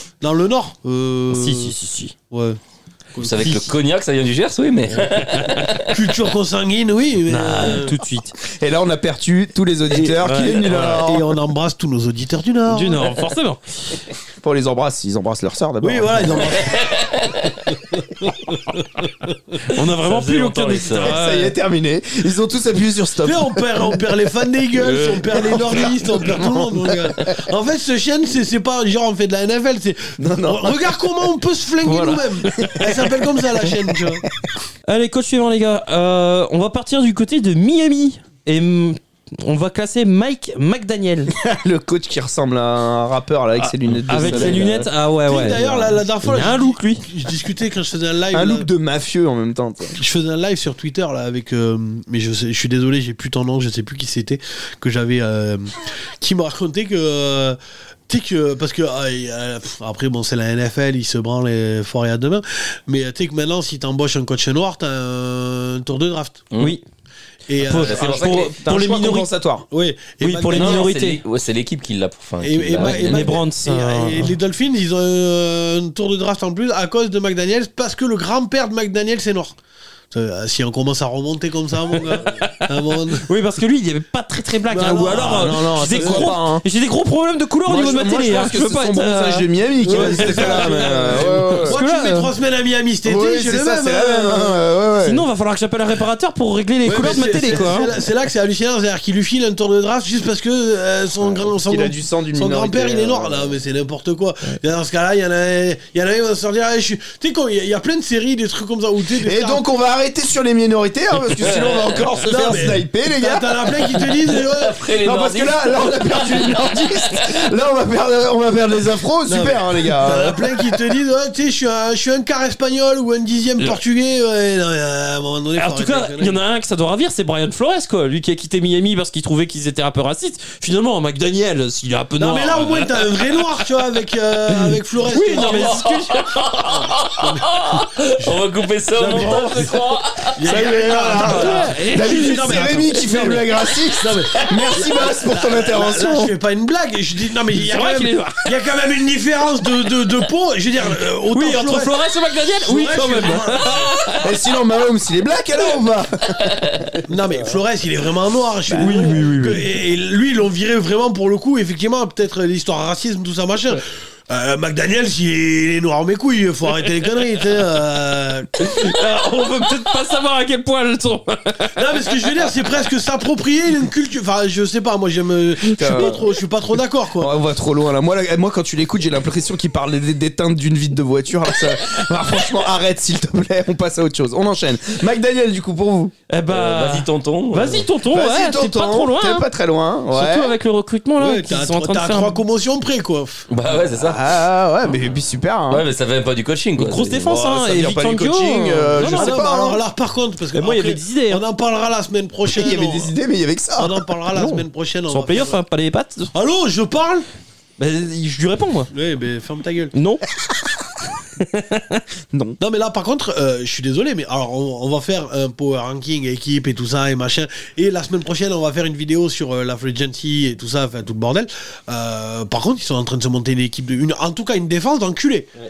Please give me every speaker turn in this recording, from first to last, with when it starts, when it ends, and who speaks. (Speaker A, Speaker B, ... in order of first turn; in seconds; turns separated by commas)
Speaker A: 0.2-1.7, Speaker B: 1.3-2.1, Speaker A: 2.3-2.6, Speaker A: 3.1-3.7, Speaker C: 3.2-5.9, Speaker B: 5.3-5.6, Speaker A: 5.9-8.0, Speaker B: 7.3-8.4, Speaker D: 8.4-11.3, Speaker B: 10.0-11.0, Speaker A: 10.7-13.1, Speaker B: 12.7-14.0, Speaker D: 14.2-16.4, Speaker A: 15.8-16.9, Speaker C: 16.6-17.6, Speaker A: 17.8-19.3, Speaker C: 19.7-21.1, Speaker B: 19.7-21.5, Speaker D: 21.0-23.9, Speaker A: 23.2-34.2, Speaker D: 24.9-27.4, Speaker D: 30.2-31.2, Speaker B: 31.8-32.7, Speaker D: 32.5-32.9, Speaker B: 34.9-41.3, Speaker D: 41.3-44.9, Speaker C: 43.9-44.5, Speaker B: 44.0-47.0, Speaker A: 44.2-44.7, Speaker A: 45.2-48.7, Speaker D: 48.3-50.0, Speaker A: 49.9-57.6, Speaker A: 58.1-66.4, Speaker A: 67.5-68.2, Speaker B: 67.6-69.3, Speaker C: 67.7-68.5, Speaker D: 68.0-69.7, Speaker A: 69.7-70.9, Speaker B: 70.2-71.2, Speaker C: 70.5-73.3, Speaker A: 72.4-79.5, Speaker B: 72.8-74.3, Speaker A: 80.1-83.3, Speaker B: 82.1-92.3, Speaker A: 84.7-86.3, Speaker D: 85.0-86.6, Speaker D: 87.6-91.8, Speaker A: 89.8-94.6, Speaker D: 93.0-95.2, Speaker B: 95.0-97.9, Speaker A: 96.8-109.6, Speaker D: 97.5-97.7, Speaker D: 101.6-103.5, Speaker D: 109.2-113.9, Speaker C: 111.3-112.1, Speaker A: 112.2-114.8, Speaker C: 114.2-117.4, Speaker D: 115.0-120.5, Speaker A: 119.2-126.4, Speaker B: 125.6-133.3, Speaker A: 132.2-135.9, Speaker B: 134.5-136.4, Speaker C: 135.3-140.4, Speaker A: 136.7-138.3, Speaker A: 139.0-139.8, Speaker B: 139.0-139.4, Speaker A: 140.3-151.9, Speaker D: 140.4-146.3, Speaker B: 141.1-143.4, Speaker B: 147.5-148.5, Speaker B: 151.3-154.3, Speaker A: 152.6-153.9, Speaker D: 154.2-157.0, Speaker A: 157.1-168.8, Speaker D: 158.7-159.2, Speaker B: 158.7-159.7, Speaker B: 168.6-171.9, Speaker A: 171.7-177.3, Speaker D: 175.8-176.2, Speaker B: 175.8-176.1, Speaker D: 177.2-186.1, Speaker B: 186.3-189.4, Speaker C: 186.5-187.8, Speaker D: 188.1-190.6, Speaker B: 190.1-192.4, Speaker A: 191.2-193.5, Speaker C: 193.5-194.2, Speaker D: 193.9-195.9, Speaker C: 195.7-197.3, Speaker B: 196.8-199.3, Speaker D: 197.2-199.8, Speaker A: 199.1-203.1, Speaker B: 200.5-201.4, Speaker D: 202.5-204.1, Speaker A: 203.8-205.6, Speaker B: 204.3-206.3, Speaker A: 206.3-207.2, Speaker B: 207.8-208.9, Speaker A: 208.9-209.9, Speaker B: 209.9-210.2, Speaker B: 211.4-212.0, Speaker D: 212.3-212.6, Speaker A: 212.6-225.5